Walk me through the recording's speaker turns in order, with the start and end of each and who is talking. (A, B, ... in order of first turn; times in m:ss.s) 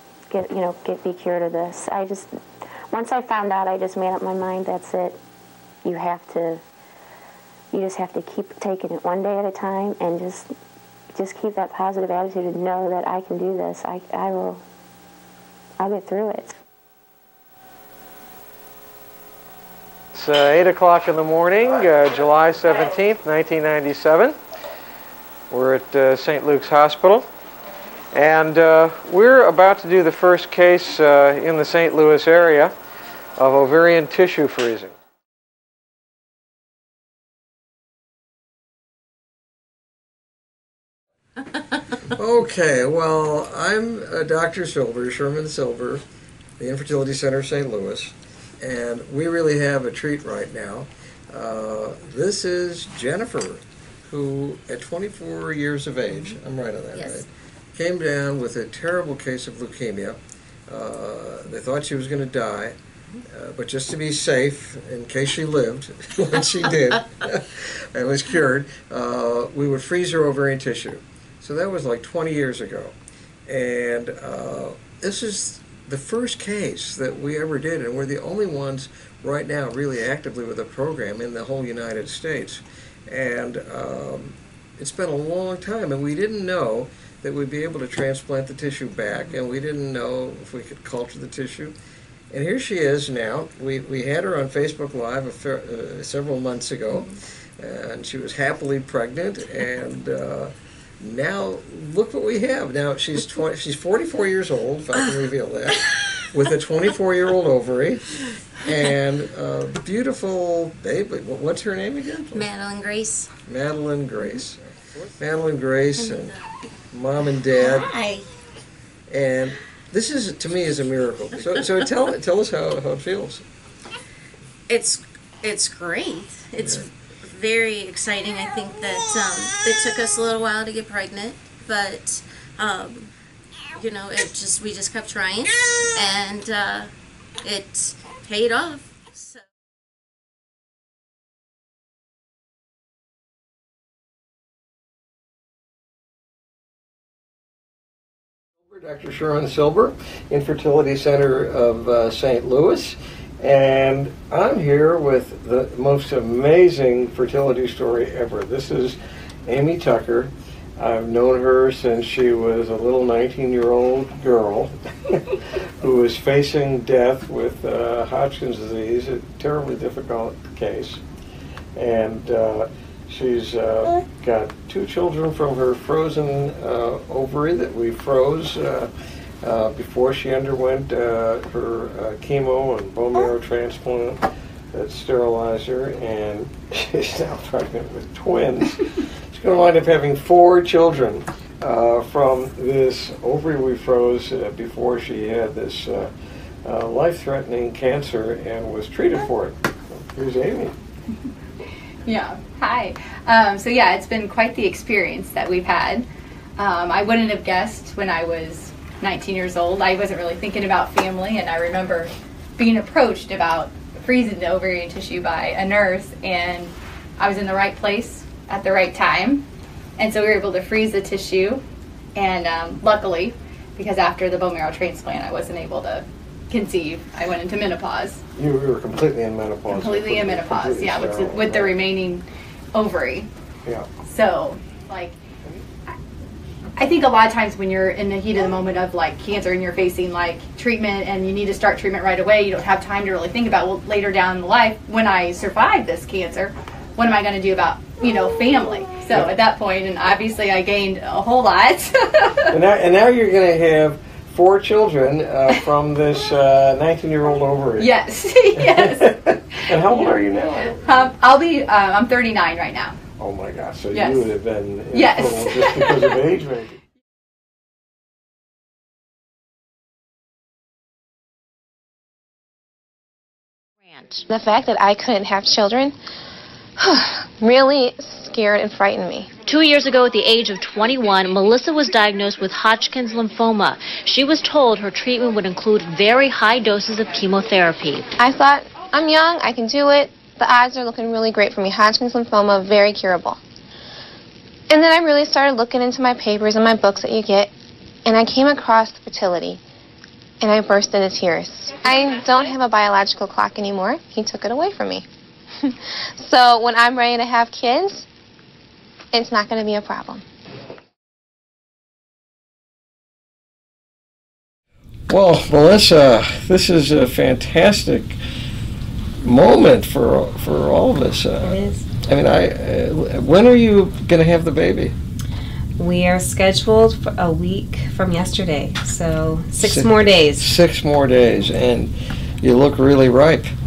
0:00.3-0:02.3 A
0:02.9-0:05.2 A
0:05.8-0:06.6 A
0:07.7-0:10.5 A
0:11.1-0:14.6 A
0:15.8-0:16.6 A
0:20.1-0:24.4 B
0:25.5-0:27.2 B
0:28.1-0:32.7 B
0:33.4-0:34.9 B
0:42.1-0:46.0 B
0:46.6-1:02.8 B
0:56.9-0:57.2 C
1:03.3-1:12.9 B
1:13.5-1:31.7 B
1:32.3-1:52.5 B
1:52.3-1:53.3 C
1:53.4-1:54.6 B
1:55.2-1:56.4 B
1:56.0-1:56.4 C
1:56.9-1:58.0 B
1:57.5-1:58.2 C
1:59.1-2:03.4 B
2:04.7-2:13.1 C
2:06.6-2:06.8 B
2:13.7-2:16.9 C
2:17.4-2:19.4 C
2:28.6-2:51.0 B
2:51.8-2:58.9 B
2:59.4-3:16.1 B
3:16.6-3:20.7 B
3:22.0-3:26.0 D
3:26.6-3:39.4 D
3:40.0-3:41.6 D
3:42.2-3:48.2 D
3:48.4-3:51.8 B
3:49.7-3:53.3 D
3:54.0-3:55.2 D
3:56.8-4:12.5 D
4:12.5-4:17.9 B
4:17.8-4:23.0 D
4:18.6-4:21.0 B
4:23.2-4:26.8 B
4:23.9-4:24.3 D
4:24.9-4:26.2 D
4:33.9-4:34.2 E
4:34.3-4:35.9 F
4:36.8-4:39.3 F
4:39.4-4:48.1 E
4:48.2-4:53.4 F
4:54.7-4:57.5 F
4:58.0-4:59.6 F
5:00.4-5:05.0 F
5:05.6-5:08.0 F
5:09.1-5:10.2 F
5:15.1-5:18.2 B
5:19.2-5:24.9 B
5:21.4-5:21.8 G
5:25.8-5:30.5 G
5:29.6-5:33.5 B